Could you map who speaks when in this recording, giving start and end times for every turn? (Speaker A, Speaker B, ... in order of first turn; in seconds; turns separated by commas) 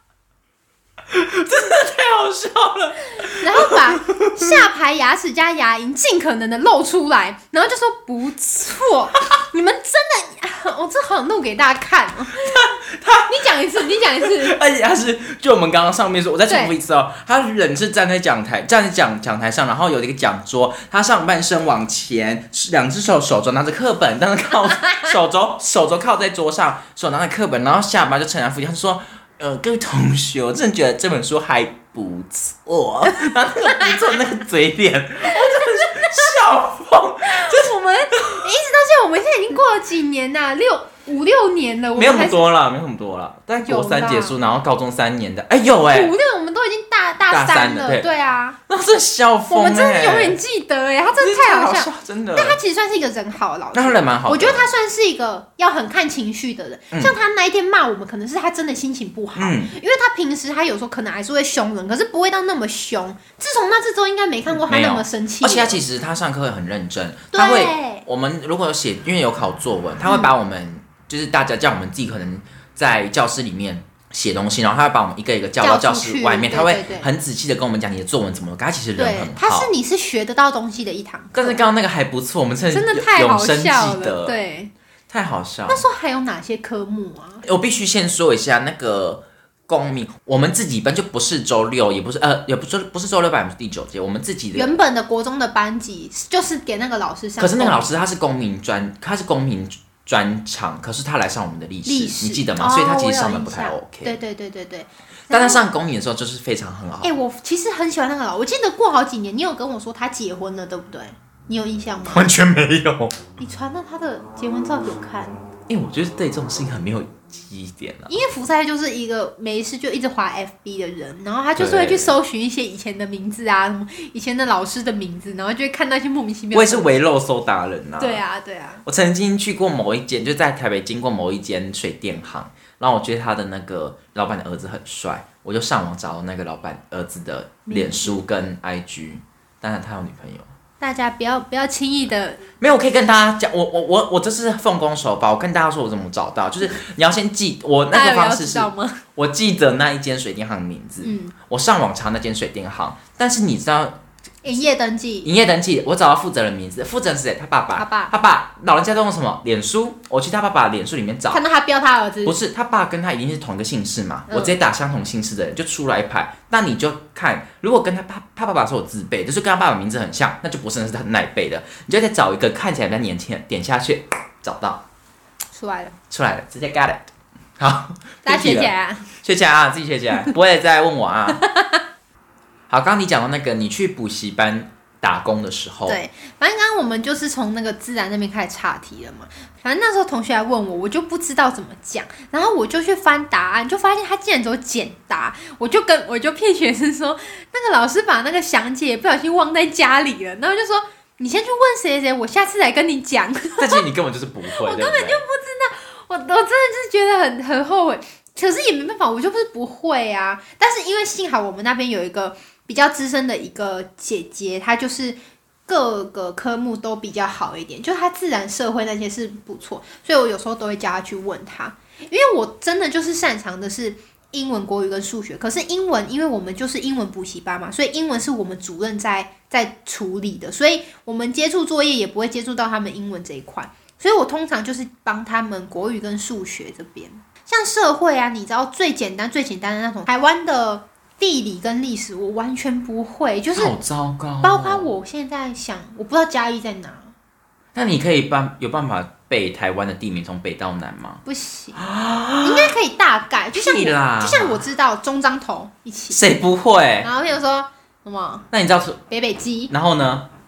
Speaker A: 1.1-4.5, Speaker B: 3.3-12.7, Speaker A: 12.4-38.5, Speaker B: 13.3-14.6, Speaker B: 16.5-16.7, Speaker B: 24.9-25.1, Speaker B: 33.2-34.2, Speaker B: 35.3-36.4, Speaker B: 37.2-42.5, Speaker A: 42.0-46.1, Speaker B: 43.6-44.4, Speaker B: 45.9-48.6, Speaker A: 47.3-48.1, Speaker A: 48.7-50.4, Speaker B: 49.5-65.8, Speaker A: 51.2-52.6, Speaker A: 53.7-54.7, Speaker A: 59.4-59.7, Speaker A: 64.5-79.7, Speaker B: 67.3-68.0, Speaker B: 70.0-70.3, Speaker B: 75.6-77.1, Speaker B: 79.0-81.6, Speaker A: 81.3-84.4, Speaker B: 82.7-84.7, Speaker A: 85.1-85.8, Speaker B: 85.7-87.5, Speaker A: 87.4-94.8, Speaker B: 94.5-98.0, Speaker A: 97.4-104.2, Speaker B: 101.9-105.7, Speaker A: 105.3-107.1, Speaker B: 107.0-112.3, Speaker A: 112.1-113.2, Speaker B: 113.4-115.4, Speaker A: 115.7-118.1, Speaker B: 118.1-127.0, Speaker A: 121.6-122.2, Speaker A: 126.5-128.2, Speaker B: 128.0-128.8, Speaker A: 128.8-140.5, Speaker B: 137.7-138.2, Speaker B: 140.8-142.4, Speaker A: 142.6-154.0, Speaker B: 147.9-149.0, Speaker B: 151.0-151.3, Speaker B: 154.4-155.3, Speaker A: 155.2-161.4, Speaker B: 157.8-158.1, Speaker B: 161.3-162.4, Speaker A: 162.2-174.8, Speaker B: 164.3-164.6, Speaker B: 175.5-176.0, Speaker A: 176.1-177.1, Speaker A: 177.6-181.4, Speaker B: 178.2-179.1, Speaker B: 181.4-181.8, Speaker A: 182.7-186.0, Speaker B: 185.9-203.8, Speaker A: 203.6-205.2, Speaker B: 204.5-243.8, Speaker A: 243.6-244.9, Speaker B: 244.4-247.1, Speaker A: 247.7-251.2, Speaker B: 251.3-251.8, Speaker A: 251.8-252.7, Speaker B: 252.4-256.2, Speaker A: 253.5-254.6, Speaker A: 256.1-257.1, Speaker B: 257.0-258.5, Speaker A: 258.5-259.0, Speaker B: 259.1-259.7, Speaker A: 259.7-260.3